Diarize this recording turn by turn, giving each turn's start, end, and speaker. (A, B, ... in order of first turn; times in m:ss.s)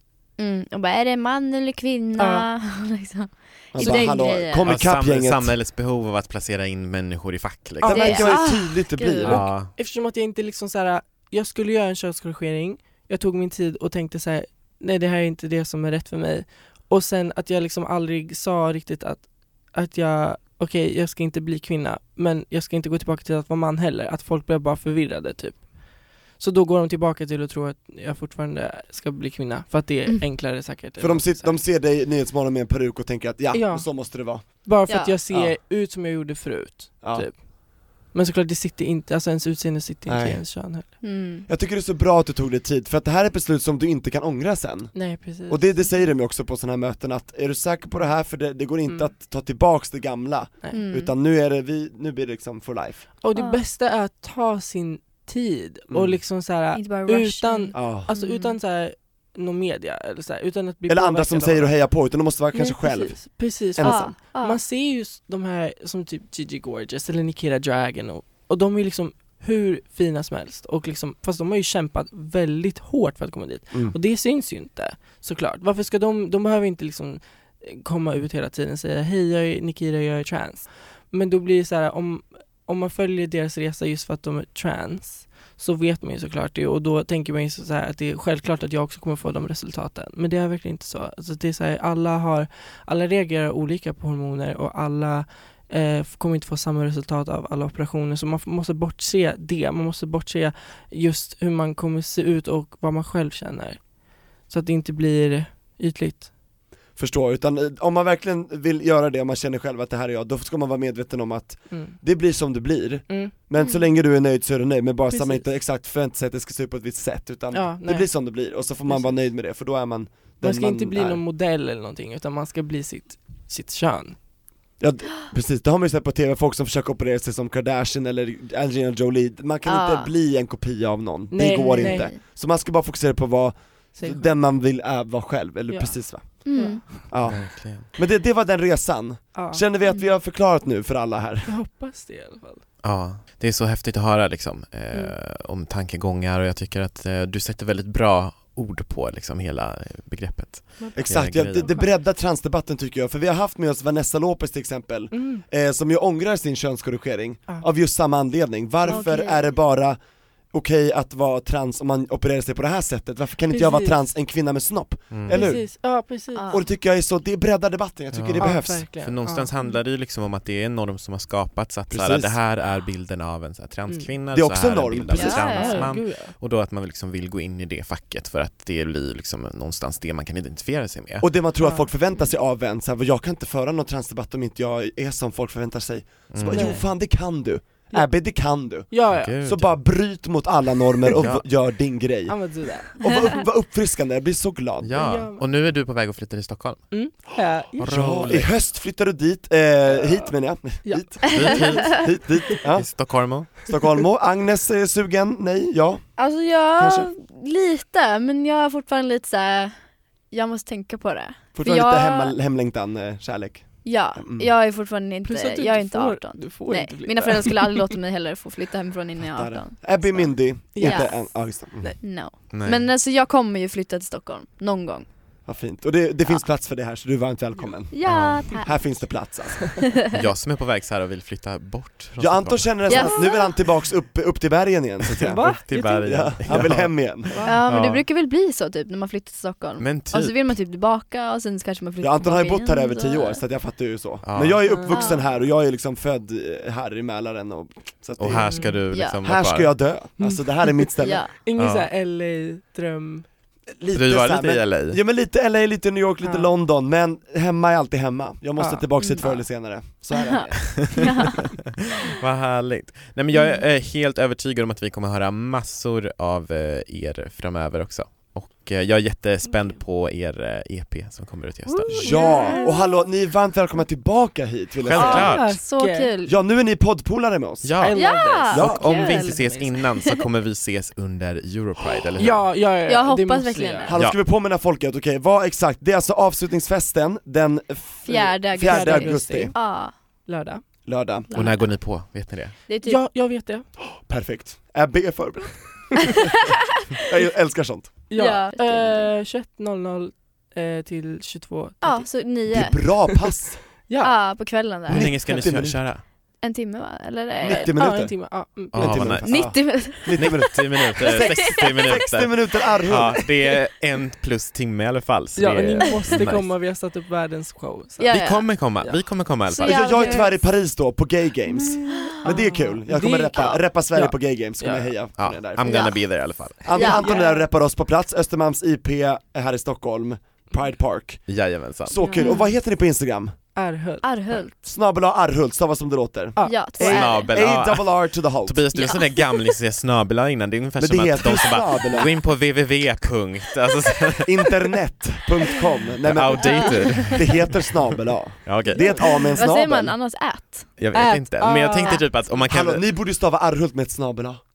0:00.4-0:04.8 A
0:02.2-0:02.5 B
0:03.7-0:05.6 C
0:04.6-0:08.5 D
0:07.8-0:09.4 C
0:07.9-0:09.4 A
0:09.2-0:09.7 D
0:09.3-0:25.7 B
0:26.3-0:31.6 B
0:31.0-0:35.5 C
0:33.5-0:40.9 B
0:34.9-0:35.1 A
0:37.0-0:37.3 C
0:40.0-0:53.1 C
0:41.0-0:41.5 A
0:44.9-0:45.8 B
0:50.7-0:51.1 A
0:53.2-1:01.9 B
0:53.3-0:53.6 A
0:55.9-0:56.2 C
0:56.7-0:58.6 A
0:57.7-0:58.1 C
1:00.9-1:04.2 C
1:02.5-1:46.3 B
1:03.8-1:04.6 A
1:47.0-2:01.2 C
1:51.7-1:52.0 B
1:53.6-1:53.8 A
1:55.1-1:55.4 B
1:57.5-1:59.2 B
2:00.4-2:04.2 B
2:04.8-2:21.5 C
2:09.6-2:10.1 A
2:11.3-2:12.1 B
2:11.4-2:12.2 A
2:14.0-2:14.3 B
2:15.7-2:17.0 B
2:16.4-2:16.8 A
2:17.2-2:17.9 D
2:19.3-2:19.6 B
2:19.9-2:20.1 A
2:21.4-2:22.6 B
2:22.8-2:31.7 D
2:30.8-2:31.9 B
2:31.0-2:40.0 C
2:35.1-2:35.4 B
2:38.8-2:39.5 A
2:40.5-2:45.7 C
2:43.5-2:44.0 B
2:45.1-2:45.4 D
2:45.3-2:46.4 B
2:46.3-2:46.7 A
2:46.5-2:48.8 C
2:48.1-3:01.3 D
2:48.4-2:49.5 B
2:51.9-2:52.3 C
2:53.9-2:54.1 B
2:54.3-2:55.6 C
2:55.1-2:55.9 A
2:55.5-2:56.3 B
3:01.2-3:15.0 C
3:01.6-3:01.9 B
3:06.3-3:06.9 D
3:06.5-3:06.8 B
3:08.9-3:09.3 B
3:09.1-3:09.8 D
3:11.1-3:11.4 D
3:12.3-3:13.0 B
3:14.8-3:16.9 D
3:15.0-3:15.4 B
3:16.9-3:17.7 B
3:17.8-3:18.5 D
3:17.8-3:26.1 C
3:19.9-3:20.2 B
3:20.8-3:21.7 B
3:21.3-3:22.0 A
3:21.3-3:22.2 D
3:22.7-3:23.8 D
3:26.2-3:29.8 A
3:26.8-3:27.1 C
3:30.3-3:32.3 A
3:31.5-3:34.5 C
3:33.8-3:41.4 A
3:35.2-3:37.9 B
3:39.2-3:41.9 C
3:40.7-3:42.0 B
3:42.0-3:45.1 A
3:42.5-3:42.9 D
3:45.4-3:49.9 C
3:47.9-3:48.8 A
3:48.0-3:48.6 D
3:50.1-3:53.0 D
3:52.2-3:57.4 C
3:52.9-3:53.6 A
3:55.2-3:56.5 B
3:55.2-3:58.0 D
3:57.3-3:57.6 B
3:57.4-4:03.4 A
3:59.8-4:00.5 D
4:02.0-4:11.3 C
4:04.2-4:04.7 D
4:04.6-4:04.9 B
4:04.9-4:05.2 A
4:08.2-4:09.8 D
4:08.3-4:08.8 B
4:08.9-4:09.2 A
4:10.2-4:10.9 B
4:11.0-4:11.3 A
4:11.4-4:13.2 B
4:11.6-4:11.9 D
4:13.7-4:21.2 C
4:13.9-4:15.0 D
4:16.2-4:16.5 B
4:18.6-4:18.9 B
4:19.0-4:19.4 A
4:20.1-4:21.4 A
4:22.1-4:32.0 D
4:23.3-4:23.6 A
4:31.7-4:32.7 B
4:31.9-4:35.5 C
4:32.0-4:32.9 A
4:34.8-4:35.6 D
4:34.9-4:36.1 B
4:35.2-4:36.3 A
4:36.2-4:37.8 C
4:37.6-4:42.5 D
4:37.8-4:39.7 B
4:37.9-4:40.0 A
4:38.5-4:38.8 C
4:42.2-4:43.9 B
4:42.8-4:44.0 A
4:43.8-4:49.5 C
4:48.1-4:50.6 B
4:48.1-4:49.9 A
4:50.8-4:51.3 C
4:51.3-4:51.8 A
4:51.3-4:52.6 D
4:52.7-4:53.0 A
4:52.8-4:53.6 B
4:54.0-4:56.3 C
4:57.0-4:58.0 C
4:58.1-5:02.1 B
4:58.1-4:59.1 A
5:01.8-5:03.2 A
5:02.5-5:03.8 C
5:03.8-5:04.1 B
5:04.0-5:05.1 A
5:04.9-5:05.9 C
5:04.9-5:06.0 D
5:06.4-5:07.7 A
5:07.4-5:13.3 C
5:07.5-5:09.2 B
5:08.7-5:16.5 D
5:09.2-5:12.0 A
5:15.4-5:18.1 B
5:18.0-5:18.5 A
5:18.1-5:19.9 D
5:19.5-5:20.4 A
5:19.6-5:26.0 C
5:21.8-5:22.3 A
5:21.9-5:24.9 B
5:25.2-5:27.0 D
5:25.6-5:26.0 A
5:26.6-5:31.3 C
5:26.7-5:27.2 A
5:26.7-5:27.5 B
5:31.3-5:31.9 D
5:31.8-5:33.3 C
5:31.9-5:32.4 B
5:32.2-5:32.5 A
5:33.5-5:34.5 B
5:34.0-5:34.5 A
5:34.6-5:38.6 C
5:36.4-5:37.3 B
5:36.4-5:37.4 A
5:36.8-5:44.6 D
5:38.8-5:39.5 A
5:40.8-5:42.1 C
5:44.2-5:49.9 C
5:46.0-5:47.8 D
5:46.6-5:47.3 A
5:48.4-5:49.3 D
5:49.3-5:50.7 A
5:50.8-5:52.9 D
5:50.9-5:52.0 B
5:52.4-5:54.4 C